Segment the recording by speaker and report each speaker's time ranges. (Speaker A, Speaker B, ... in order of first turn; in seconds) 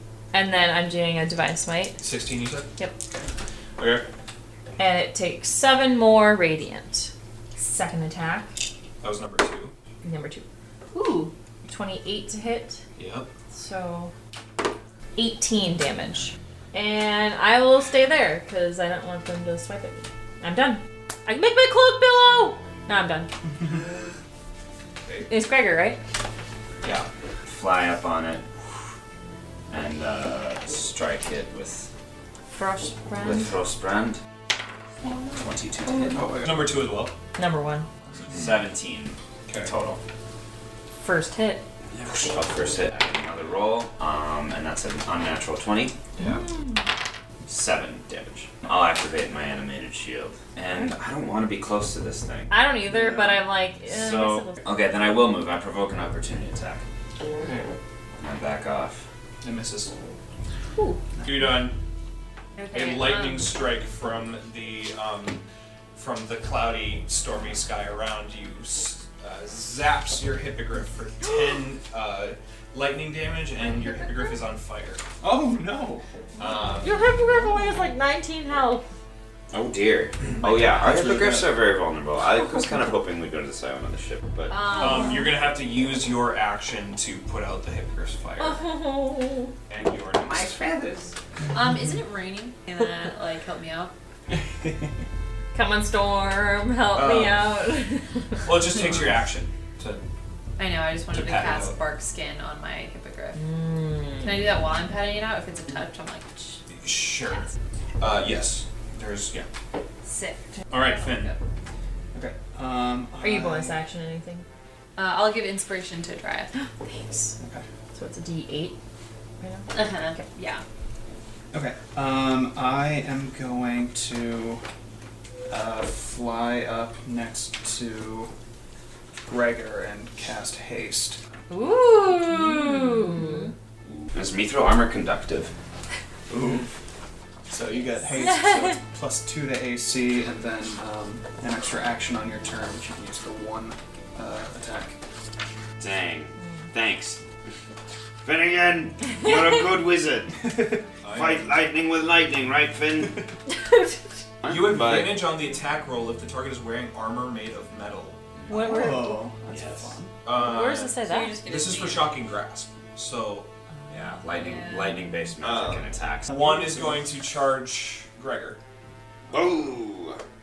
Speaker A: 0.3-2.0, 4.8-8.6, 10.0-10.4, 11.7-12.8, 13.5-14.1, 15.2-23.3, 25.3-26.0, 32.5-33.5, 37.4-37.9, 41.0-41.6, 46.2-46.9, 52.5-54.6, 76.8-78.8, 84.8-85.1, 88.4-89.5, 95.5-98.4, 103.3-104.4, 113.2-114.5, 116.5-117.3, 117.9-118.8, 119.4-120.3, 131.5-133.5, 153.5-154.0, 158.5-159.2, 160.3-161.3
Speaker B: 2.0-2.7, 3.8-4.0, 9.0-9.7, 13.0-13.3, 26.8-27.1, 36.4-37.1, 59.5-59.9, 61.2-61.8, 62.7-65.4, 66.0-75.0, 76.4-77.0, 84.8-88.7, 89.7-90.6, 96.9-97.6, 98.4-100.0, 101.1-101.8, 106.8-107.5, 108.0-109.5, 110.7-111.3, 151.0-151.5, 154.5-158.2, 160.2-164.2, 165.4-168.6
Speaker C: 10.9-11.3, 62.6-63.4, 76.4-76.7, 84.5-85.4, 91.5-93.9, 100.6-103.4, 104.2-106.6, 110.0-111.4, 115.0-116.5, 119.7-120.6, 132.2-133.5, 161.0-162.2, 164.3-165.0
Speaker D: 27.5-28.5, 29.7-31.9, 33.2-34.2, 35.4-36.3, 38.3-40.0, 41.9-46.0, 47.4-52.5, 53.9-56.9, 58.2-59.1, 79.5-84.6, 90.2-91.1, 134.1-135.5, 145.8-147.2, 148.2-150.5, 151.1-153.2, 154.4-155.3, 158.4-158.8, 159.5-159.9, 164.2-166.3, 169.3-170.2
Speaker E: 36.1-36.6, 53.0-53.2, 75.2-76.0, 80.7-81.6, 94.5-94.8, 112.1-113.8, 117.4-117.6, 121.5-124.6, 125.5-128.3, 129.3-131.2, 136.3-136.7, 137.5-145.0, 150.4-150.8, 158.5-160.1, 166.3-167.0